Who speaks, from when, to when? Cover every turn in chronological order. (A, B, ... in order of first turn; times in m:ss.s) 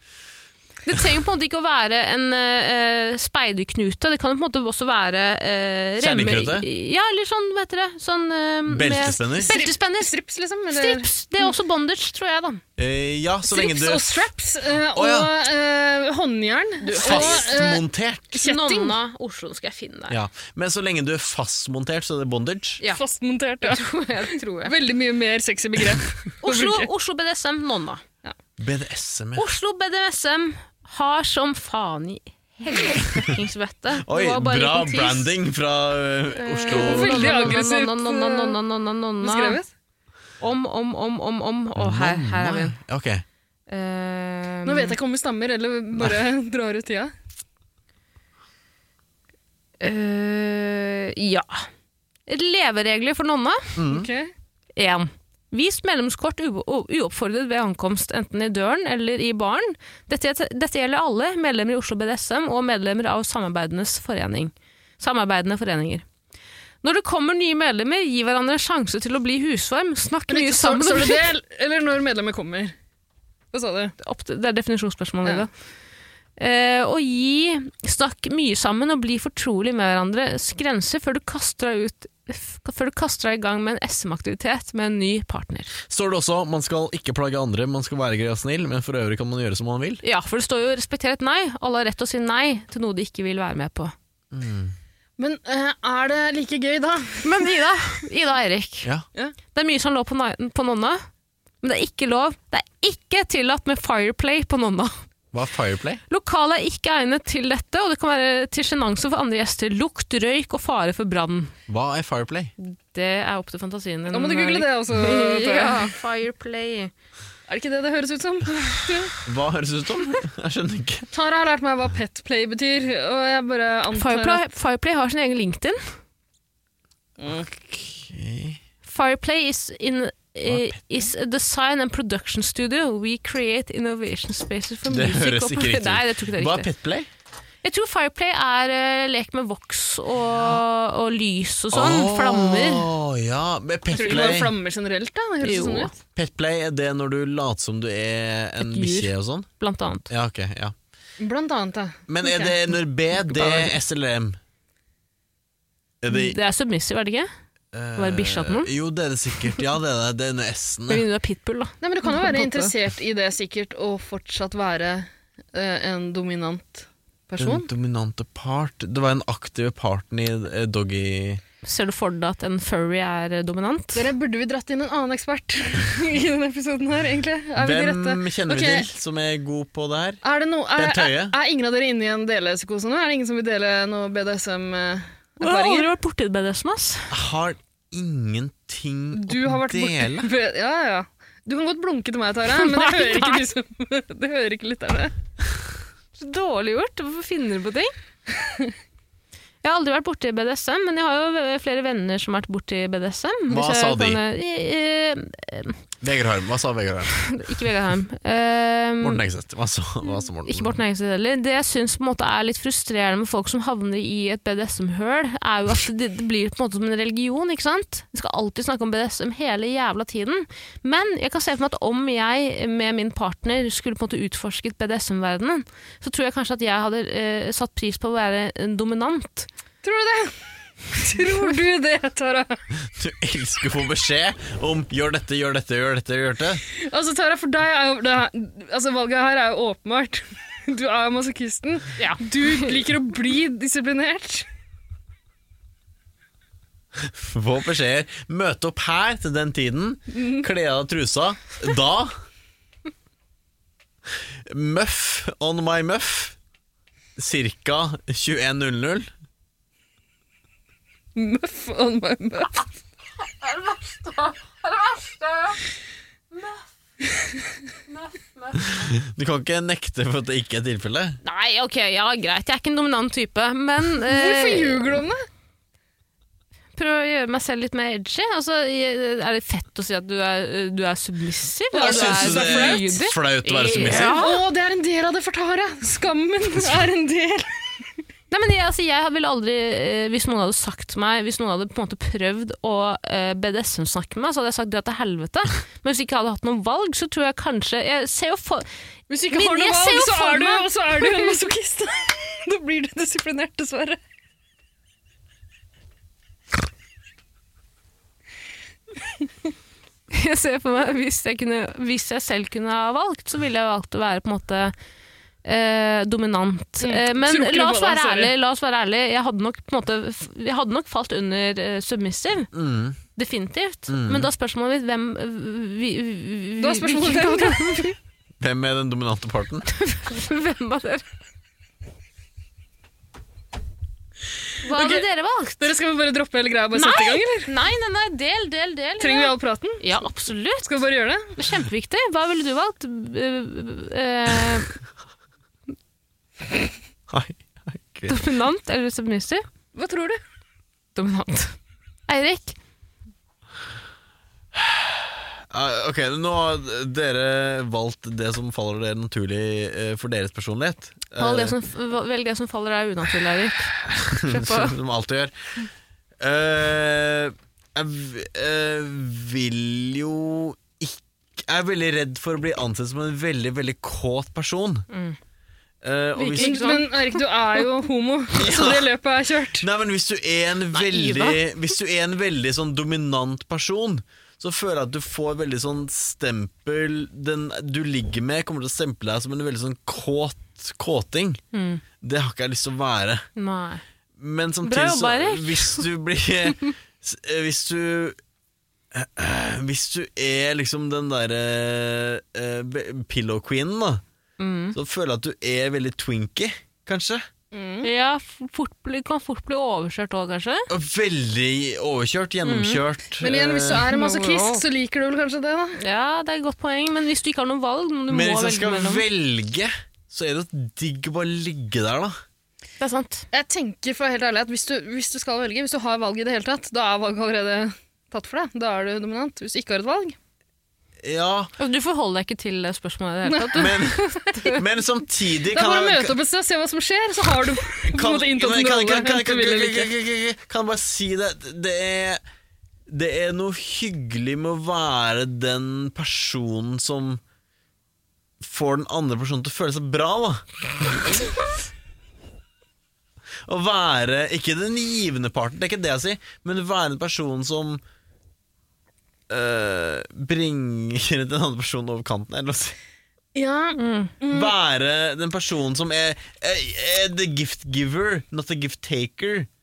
0:00.8-0:10.1 A
0:06.0-0:06.7 B
0:08.7-0:09.5 B
0:09.4-0:11.6 C
0:10.7-0:12.6 A
0:12.8-0:14.1 B
0:13.5-0:19.0 C
0:14.9-0:15.3 B
0:16.8-0:17.5 A
0:17.0-0:18.3 B
0:18.4-0:20.2 A
0:20.1-0:22.8 B
0:22.9-0:26.9 C
0:23.6-0:24.7 A
0:26.4-0:28.0 A
0:28.6-0:29.4 B
0:29.4-0:35.3 A
0:34.0-0:37.6 B
0:36.3-0:39.6 A
0:36.7-0:38.6 C
0:39.2-0:39.7 C
0:40.4-0:42.8 A
0:41.8-0:43.2 B
0:43.7-0:45.0 A
0:44.6-0:47.1 C
0:49.8-0:51.7 A
0:52.3-0:53.7 A
0:53.8-0:54.1 B
0:53.9-0:54.3 C
0:54.8-1:06.0 A
1:06.8-1:11.3 A
1:10.3-1:12.7 C
1:13.5-1:13.9 C
1:14.0-1:15.5 A
1:16.4-1:25.7 A
1:25.9-1:30.0 B
1:30.0-1:33.9 A
1:34.3-1:34.7 B
1:35.2-1:37.5 C
1:37.2-1:38.9 A
1:39.5-1:41.0 A
1:41.6-1:44.9 A
1:45.3-1:46.0 B
1:46.1-1:51.5 A
1:51.7-1:52.5 B
1:52.6-1:56.9 A
1:54.1-1:55.9 C
1:57.5-1:59.2 C
1:59.2-2:01.1 B
2:01.1-2:04.4 C
2:03.9-2:05.8 A
2:07.2-2:07.5 C
2:07.3-2:08.6 B
2:08.8-2:16.7 A
2:10.5-2:10.8 B
2:14.9-2:17.1 B
2:17.6-2:22.9 A
2:21.7-2:24.5 B
2:23.9-2:25.9 C
2:25.4-2:25.9 A
2:26.1-2:29.5 B
2:28.6-2:30.1 A
2:30.1-2:30.7 B
2:31.2-2:32.6 C
2:32.1-2:34.4 B
2:36.0-2:36.4 B
2:36.1-2:37.3 A
2:37.7-2:41.0 B
2:38.0-2:38.7 A
2:40.9-2:42.7 A
2:41.8-2:47.7 C
2:47.4-2:51.4 B
2:51.6-2:54.1 A
2:53.9-2:58.9 C
2:57.6-3:00.2 B
3:00.2-3:05.9 C
3:00.8-3:01.4 B
3:05.4-3:07.1 A
3:07.1-3:10.3 B
3:09.1-3:15.1 C
3:12.5-3:13.5 A
3:16.2-3:17.9 A
3:19.6-3:25.8 A
3:23.5-3:24.2 B
3:26.0-3:27.1 B
3:27.2-3:29.2 A
3:29.0-3:30.8 B
3:30.4-3:49.5 A
3:49.8-3:50.4 C
3:50.9-3:52.6 C
3:52.9-3:56.6 B
3:56.7-4:04.5 C
4:02.0-4:02.6 A
4:07.0-4:12.1 B
4:10.1-4:10.4 C
4:14.4-4:16.4 B
4:17.2-4:19.1 B
4:21.2-4:22.6 C
4:23.4-4:25.6 A
4:27.9-4:28.8 A
4:28.6-4:31.2 B
4:31.2-4:34.9 A
4:34.0-4:35.2 C
4:36.8-4:44.4 A
4:41.7-4:42.9 C
4:41.8-4:44.2 B
4:43.7-4:47.8 C
4:48.3-4:58.7 A
4:59.1-5:04.0 C
4:59.3-5:01.3 A
5:10.1-5:14.7 A
5:15.4-5:22.5 A
5:16.8-5:18.3 C
5:22.5-5:23.0 B
5:23.1-5:28.0 A
5:23.9-5:24.3 B
5:26.6-5:27.9 C
5:28.4-5:29.7 B
5:29.7-5:31.0 A
5:34.6-5:35.6 A
5:34.7-5:35.0 C
5:35.6-5:37.5 C
5:36.7-5:40.7 A
5:39.0-5:40.0 C
5:40.6-5:41.3 C
5:41.3-5:44.8 A
5:47.1-5:48.2 B
5:48.1-5:49.4 A
5:49.7-5:50.2 C
5:50.9-5:51.6 A
5:52.1-5:52.6 A
5:54.5-6:01.6 B
6:01.2-6:04.8 A
6:03.8-6:05.3 B
6:06.2-6:14.8 B
6:14.9-6:15.2 A
6:15.8-6:16.8 B
6:16.2-6:17.2 A
6:16.4-6:19.6 C
6:18.3-6:18.9 B
6:19.6-6:31.4 B
6:20.7-6:21.4 A
6:31.5-6:31.8 A
6:32.0-6:33.2 B
6:33.4-6:33.8 A
6:34.2-6:38.2 B
6:34.6-6:35.9 A
6:38.9-6:44.0 B
6:44.4-6:44.8 A
6:44.7-6:47.3 B
6:47.5-6:47.9 C
6:47.8-6:50.7 A
6:50.7-6:53.8 B
6:52.4-6:52.8 A
6:53.2-6:55.8 C
6:53.8-6:54.6 A
6:55.8-6:59.0 A
6:58.1-7:02.2 B
7:02.8-7:03.2 A
7:03.3-7:10.2 C
7:11.0-7:11.5 B
7:11.6-7:14.6 A
7:13.2-7:13.9 C
7:13.5-7:16.2 B
7:15.5-7:19.9 C
7:17.9-7:22.2 B
7:22.9-7:27.2 B
7:28.4-7:30.4 B
7:33.4-7:37.8 B
7:39.3-7:42.8 B
7:43.3-7:44.5 C
7:43.8-7:44.1 A
7:44.3-7:49.5 B